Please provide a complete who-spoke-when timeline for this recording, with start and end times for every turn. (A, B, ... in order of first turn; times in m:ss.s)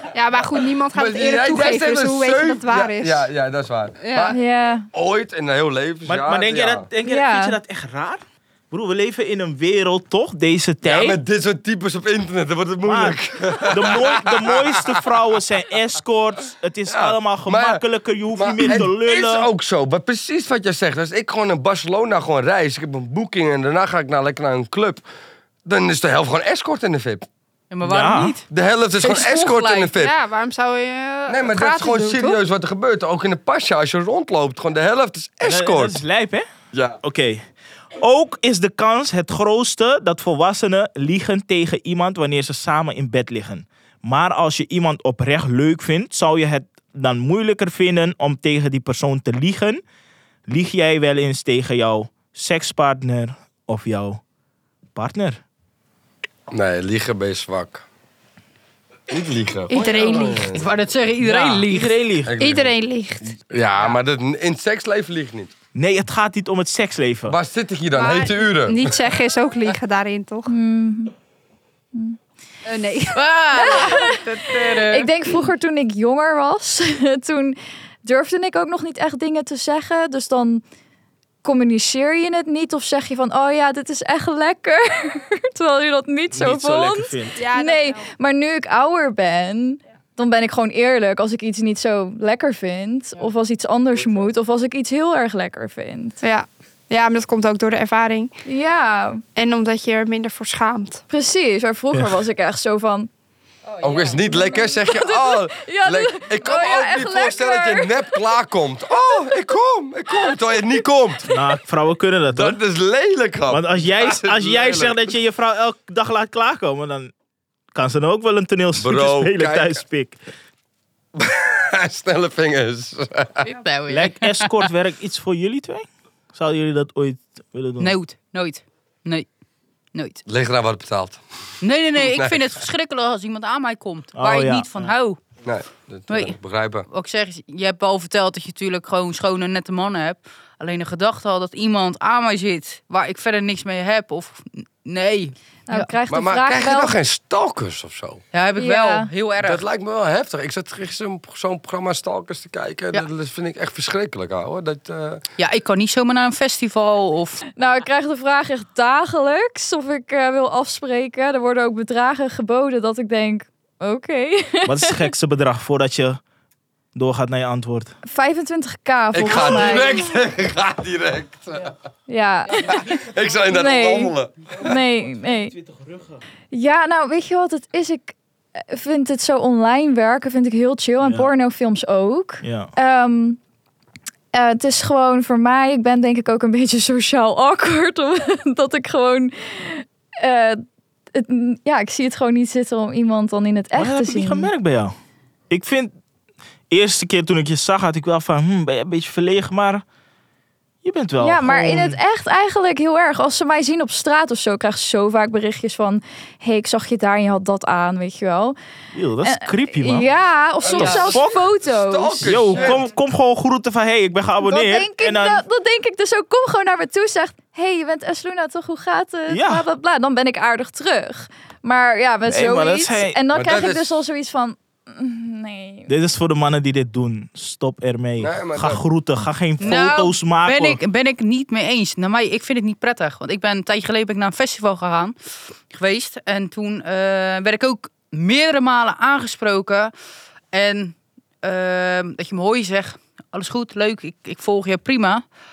0:00.1-0:03.2 A
0:00.9-0:04.4 B
0:04.0-0:04.3 A
0:04.3-0:04.9 C
0:04.9-0:06.9 B
0:06.1-0:11.2 D
0:07.0-0:07.6 C
0:10.8-0:15.0 B
0:12.8-0:13.2 D
0:13.7-0:19.5 D
0:16.9-0:17.8 B
0:18.4-0:25.0 B
0:25.6-0:27.3 B
0:27.7-0:28.4 E
0:27.8-0:28.4 D
0:28.5-0:30.1 B
0:29.0-0:29.9 E
0:30.0-0:32.4 A
0:31.3-0:36.0 B
0:35.4-0:36.4 D
0:36.7-0:37.0 B
0:37.0-0:37.4 D
0:38.0-0:49.8 D
0:50.5-0:54.2 D
0:55.0-0:55.4 D
0:56.5-0:57.8 B
0:59.1-1:00.7 B
0:59.7-1:00.5 A
1:00.5-1:02.0 E
1:01.2-1:02.4 D
1:02.2-1:02.7 B
1:02.4-1:03.3 A
1:03.4-1:05.5 B
1:05.8-1:07.4 D
1:07.3-1:09.0 B
1:08.0-1:10.5 A
1:10.5-1:11.1 C
1:12.7-1:13.2 A
1:13.1-1:15.1 E
1:13.5-1:20.6 C
1:21.4-1:36.2 C
1:26.3-1:27.4 D
1:27.4-1:28.1 A
1:36.2-1:38.3 A
1:38.5-1:39.2 C
1:39.4-1:41.0 A
1:41.1-1:43.1 C
1:41.9-1:42.2 D
1:43.8-1:51.3 B
1:44.2-1:48.2 C
1:51.3-1:52.6 D
1:52.4-1:55.1 B
1:53.5-1:57.1 D
1:57.7-2:00.2 D
1:58.8-1:59.8 B
2:01.2-2:03.4 B
2:03.4-2:04.7 E
2:03.9-2:08.0 D
2:07.8-2:09.3 E
2:09.9-2:10.2 E
2:10.3-2:11.2 B
2:11.6-2:15.2 E
2:12.0-2:12.5 B
2:14.2-2:14.7 D
2:15.4-2:16.8 B
2:16.1-2:16.4 E
2:16.9-2:25.9 E
2:25.7-2:26.9 C
2:26.1-2:28.2 B
2:28.3-2:29.6 E
2:28.6-2:29.1 C
2:29.4-2:35.2 B
2:35.4-2:37.4 E
2:37.6-2:45.0 C
2:44.7-2:46.2 D
2:47.0-2:47.9 D
2:48.0-2:50.1 C
2:49.1-2:51.7 B
2:52.1-2:55.6 C
2:52.6-2:54.8 B
2:55.6-2:56.2 D
2:56.5-3:03.4 C
3:01.0-3:01.3 D
3:02.4-3:02.7 D
3:04.3-3:14.5 C
3:13.8-3:14.9 D
3:15.5-3:15.9 D
3:16.7-3:19.8 D
3:20.8-3:22.0 D
3:21.2-3:28.6 C
3:28.9-3:30.1 D
3:29.2-3:32.8 C
3:30.6-3:32.9 B
3:30.7-3:31.5 D
3:32.2-3:35.4 D
3:34.4-3:45.9 C
3:39.3-3:39.6 D
3:42.3-3:43.2 D
3:43.3-3:44.0 B
3:45.9-3:50.8 D
3:48.2-3:48.8 B
3:49.6-3:55.2 E
3:55.7-3:59.9 E
4:00.5-4:05.2 E